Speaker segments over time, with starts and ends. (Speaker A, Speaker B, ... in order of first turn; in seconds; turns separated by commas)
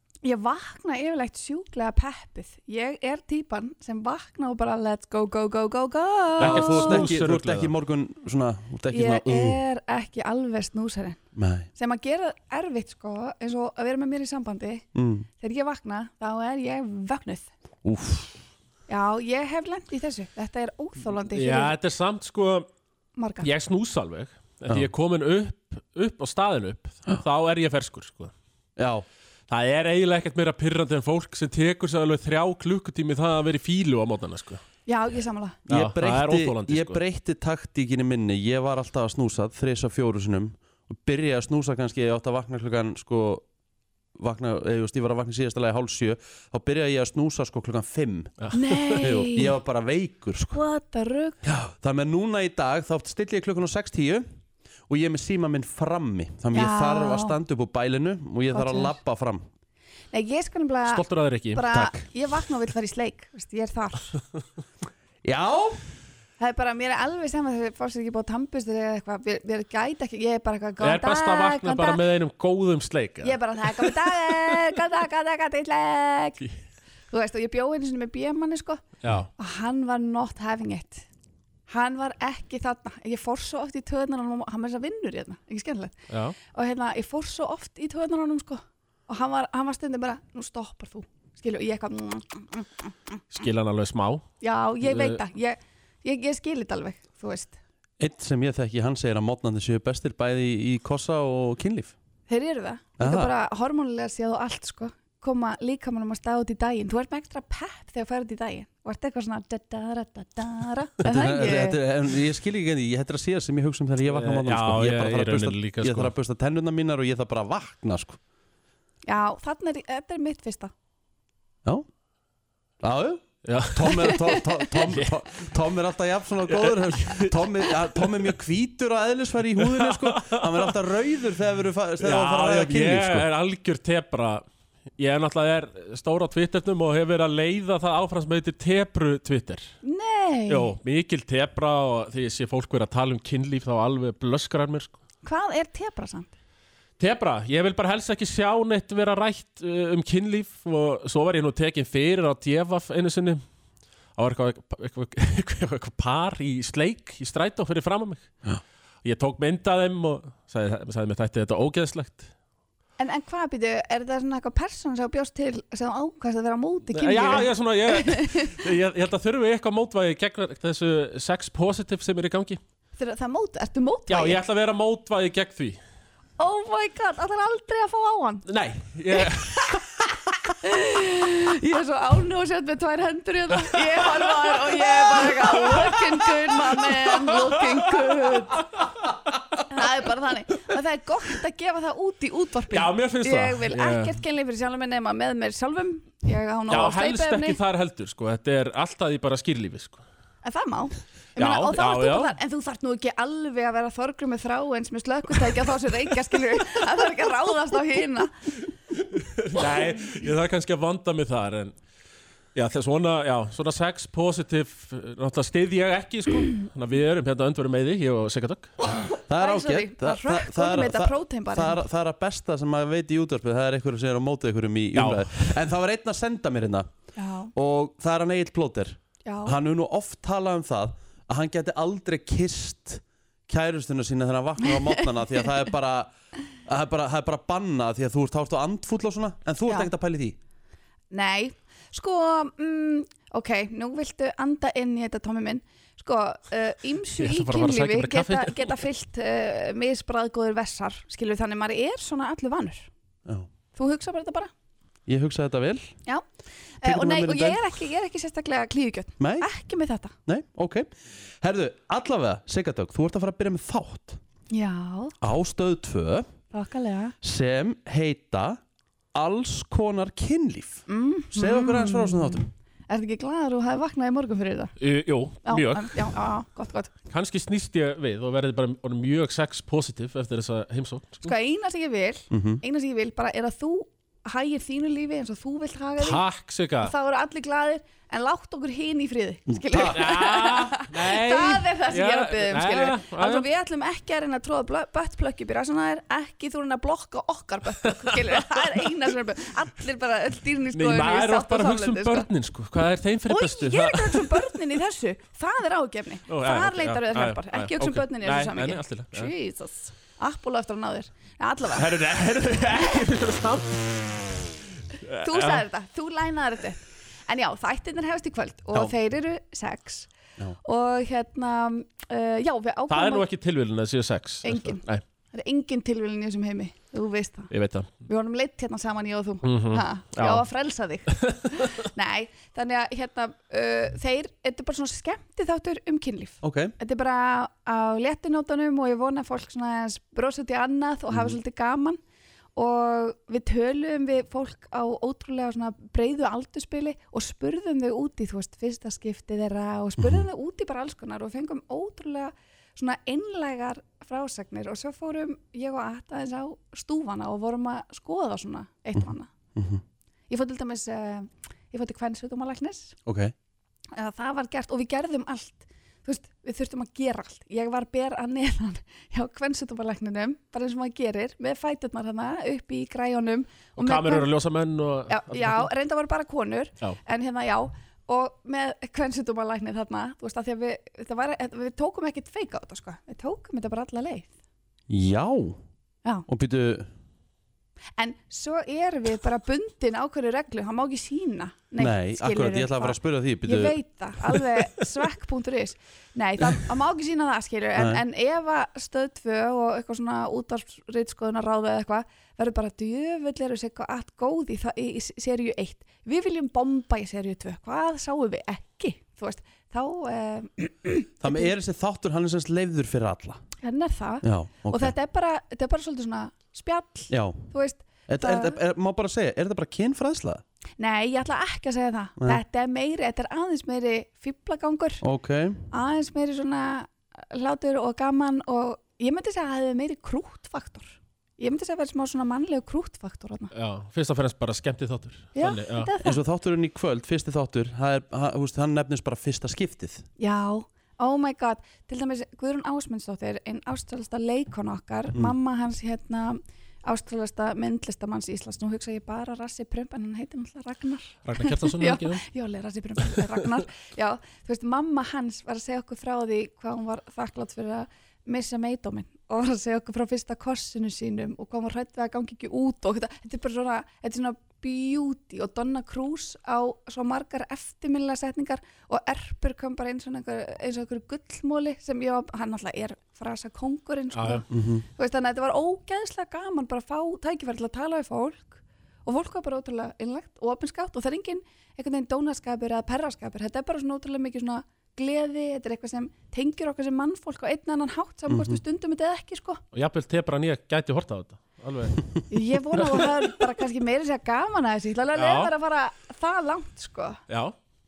Speaker A: 0.2-7.1, Speaker B: 6.4-7.7, Speaker C: 6.4-9.6, Speaker A: 8.9-11.2, Speaker C: 11.4-11.7, Speaker A: 11.8-14.9, Speaker C: 14.9-15.3, Speaker A: 15.4-17.5, Speaker C: 17.9-18.4, Speaker A: 18.9-21.8, Speaker B: 21.3-22.7, Speaker A: 23.2-23.5, Speaker B: 23.4-28.3, Speaker C: 28.8-29.1, Speaker B: 29.5-34.6, Speaker A: 34.9-35.6, Speaker C: 35.7-43.5, Speaker B: 35.7-37.0, Speaker C: 44.2-48.4, Speaker B: 48.4-49.1, Speaker A: 48.5-49.5, Speaker C: 49.0-50.6, Speaker A: 50.5-51.4, Speaker C: 51.4-54.2, Speaker C: 54.9-59.5, Speaker A: 56.5-57.4, Speaker A: 58.5-59.0, Speaker A: 60.1-64.2, Speaker B: 60.9-61.7, Speaker C: 61.7-62.0, Speaker C: 65.2-65.8, Speaker A: 66.4-72.0, Speaker B: 70.8-74.6, Speaker A: 73.2-76.5, Speaker A: 77.1-78.8, Speaker B: 79.0-79.3, Speaker A: 79.4-81.1, Speaker A: 81.7-86.0, Speaker B: 86.1-86.4, Speaker A: 86.5-93.2, Speaker B: 93.3-94.3, Speaker A: 94.4-97.6, Speaker B: 94.8-95.2, Speaker C: 98.0-101.9, Speaker A: 102.3-111.8, Speaker C: 103.0-103.3, Speaker C: 111.0-118.2, Speaker B: 114.1-116.1, Speaker A: 119.0-120.7, Speaker C: 122.8-133.3, Speaker B: 123.4-125.2, Speaker B: 126.5-128.3, Speaker B: 129.6-130.8, Speaker B: 132.0-134.4, Speaker B: 135.0-139.7, Speaker A: 139.8-140.8, Speaker B: 140.5-145.0, Speaker A: 145.2-146.3, Speaker B: 147.0-153.4, Speaker B: 154.2-158.3, Speaker B: 159.0-162.3, Speaker A: 163.0-168.6, Speaker B: 166.9-172.6, Speaker A: 173.0-174.4, Speaker B: 174.1-175.8, Speaker A: 176.4-178.5, Speaker B: 178.5-179.8, Speaker A: 179.1-179.8, Speaker A: 180.6-188.7, Speaker B: 183.6-188.8, Speaker A: 189.7-197.6, Speaker B: 192.7-194.2, Speaker B: 196.7-200.0, Speaker A: 200.4-208.3, Speaker B: 201.4-202.3, Speaker B: 209.0-211.8, Speaker B: 212.6-218.7, Speaker C: 219.3-226.9, Speaker A: 219.4-221.8, Speaker B: 224.9-225.6, Speaker A: 227.2-227.5, Speaker C: 227.6-236.1, Speaker A: 229.2-229.6, Speaker C: 236.7-240.4, Speaker A: 241.1-252.9, Speaker B: 247.2-248.8, Speaker A: 253.8-254.5, Speaker C: 255.1-255.9, Speaker A: 256.8-260.1, Speaker C: 256.8-257.8, Speaker C: 259.2-259.5, Speaker C: 260.3-260.9, Speaker C: 261.4-264.2, Speaker A: 264.5-265.2, Speaker C: 265.2-266.3, Speaker A: 266.5-267.2, Speaker C: 267.2-268.6, Speaker C: 269.1-272.5, Speaker A: 270.9-274.8, Speaker B: 274.8-276.1, Speaker A: 275.4-276.9, Speaker B: 277.1-281.3, Speaker A: 281.2-286.2, Speaker C: 282.3-282.6, Speaker B: 286.0-286.9, Speaker A: 286.8-302.3, Speaker C: 289.5-290.0, Speaker B: 289.8-293.5, Speaker B: 297.8-298.9, Speaker B: 300.7-304.6, Speaker A: 303.3-311.9, Speaker B: 306.3-309.3, Speaker B: 311.7-315.7, Speaker A: 315.2-320.1, Speaker A: 320.6-323.3, Speaker B: 322.9-325.0, Speaker A: 324.4-327.5, Speaker B: 327.5-327.9, Speaker A: 328.1-342.0, Speaker B: 329.4-330.4, Speaker B: 331.1-331.9, Speaker C: 336.4-336.7, Speaker A: 342.6-359.3, Speaker C: 350.0-350.2, Speaker C: 358.9-359.8, Speaker A: 360.3-363.0, Speaker C: 363.1-363.3, Speaker A: 363.9-374.3, Speaker B: 373.8-375.7, Speaker A: 375.1-384.3, Speaker C: 384.9-385.6, Speaker C: 386.3-386.9, Speaker A: 388.0-411.5, Speaker C: 391.8-393.8, Speaker C: 397.8-398.0, Speaker C: 411.2-413.4, Speaker A: 413.6-418.6, Speaker C: 414.2-414.9, Speaker C: 417.1-417.4, Speaker C: 418.1-420.4, Speaker A: 420.8-425.0, Speaker C: 425.0-425.7, Speaker A: 425.7-433.5, Speaker B: 433.5-435.9, Speaker A: 435.4-436.2, Speaker C: 436.0-440.1, Speaker A: 440.2-489.6, Speaker B: 451.2-452.2, Speaker B: 453.1-453.4, Speaker B: 474.1-474.4, Speaker C: 474.5-474.9, Speaker C: 488.3-488.6, Speaker B: 489.7-492.0, Speaker A: 492.3-497.2, Speaker B: 492.7-493.3, Speaker B: 495.1-495.5, Speaker B: 497.3-497.6